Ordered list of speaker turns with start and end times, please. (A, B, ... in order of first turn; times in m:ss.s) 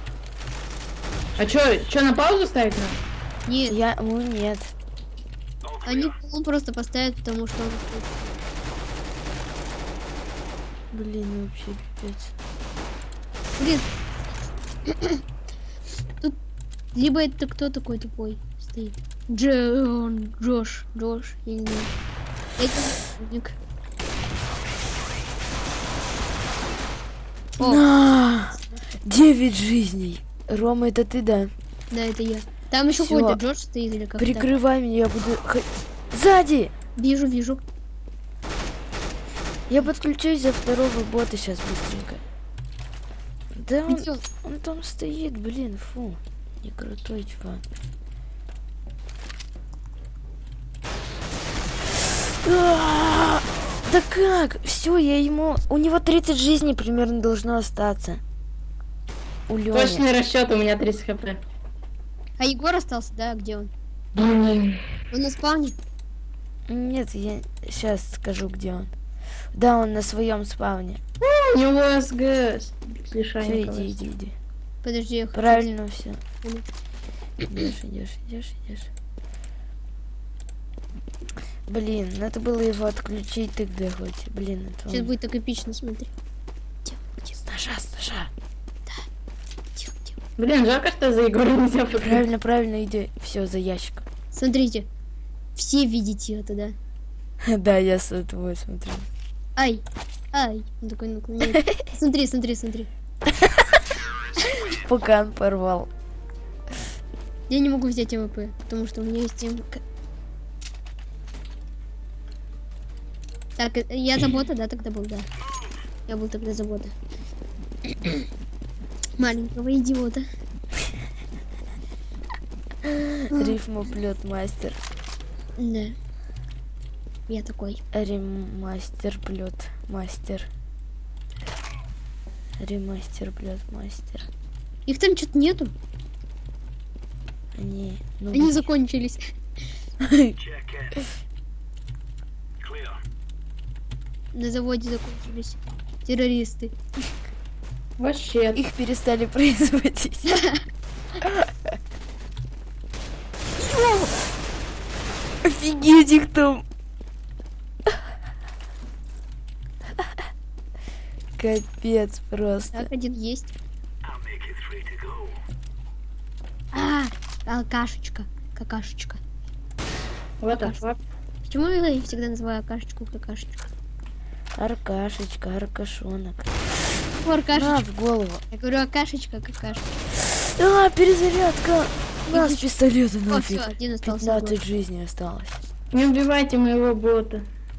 0:01.4-0:03.0 A
0:03.4-0:03.8 B
0:03.7-0:04.7 C
0:05.8-0:08.3 B
0:10.9-0:12.3 C
0:13.6-0:13.9 B
0:14.9-0:15.2 B
0:16.9-0:21.9 B
0:22.6-0:23.6 B
0:27.6-0:27.8 B
0:27.6-0:31.5 C
0:31.9-0:34.5 B
0:32.9-0:33.4 C
0:34.2-0:36.7 C
0:37.0-0:37.6 B
0:39.7-0:42.2 C
0:43.5-0:47.6 C
0:43.9-0:44.2 B
0:52.4-0:58.2 C
0:59.5-1:00.0 C
0:59.7-1:01.4 A
1:02.4-1:03.7 B
1:04.1-1:04.8 A
1:05.1-1:05.7 B
1:06.7-1:08.9 C
1:09.5-1:11.0 C
1:11.2-1:14.0 A
1:13.4-1:14.3 C
1:14.8-1:15.7 B
1:15.3-1:16.2 C
1:17.5-1:18.9 C
1:21.7-1:25.1 C
1:24.9-1:26.1 B
1:26.8-1:27.3 B
1:27.4-1:28.3 C
1:29.8-1:30.1 B
1:30.4-1:32.2 A
1:32.0-1:34.0 C
1:34.3-1:34.8 B
1:35.6-1:36.7 B
1:37.4-1:39.1 C
1:39.6-1:42.9 B
1:44.8-1:45.9 C
1:47.5-1:49.8 B
1:53.6-1:55.3 B
1:56.1-1:56.9 B
1:59.2-2:00.2 B
2:02.8-2:04.8 C
2:03.3-2:03.6 B
2:05.6-2:06.0 B
2:07.3-2:07.8 B
2:07.9-2:10.5 C
2:12.6-2:14.3 C
2:14.8-2:15.7 B
2:17.5-2:18.6 C
2:18.3-2:19.3 B
2:20.0-2:20.4 C
2:24.3-2:26.7 B
2:28.0-2:28.6 A
2:28.5-2:30.4 C
2:33.6-2:34.1 B
2:35.4-2:36.6 C
2:41.4-2:42.9 C
2:42.7-2:43.5 B
2:46.7-2:49.2 B
2:50.4-2:51.0 A
2:50.5-2:50.8 B
2:51.4-2:53.7 B
2:54.6-2:56.5 C
2:57.2-2:57.8 B
2:57.5-2:58.4 C
2:58.5-2:59.8 B
3:00.6-3:05.6 C
3:02.3-3:02.6 B
3:03.3-3:04.6 B
3:05.9-3:07.4 A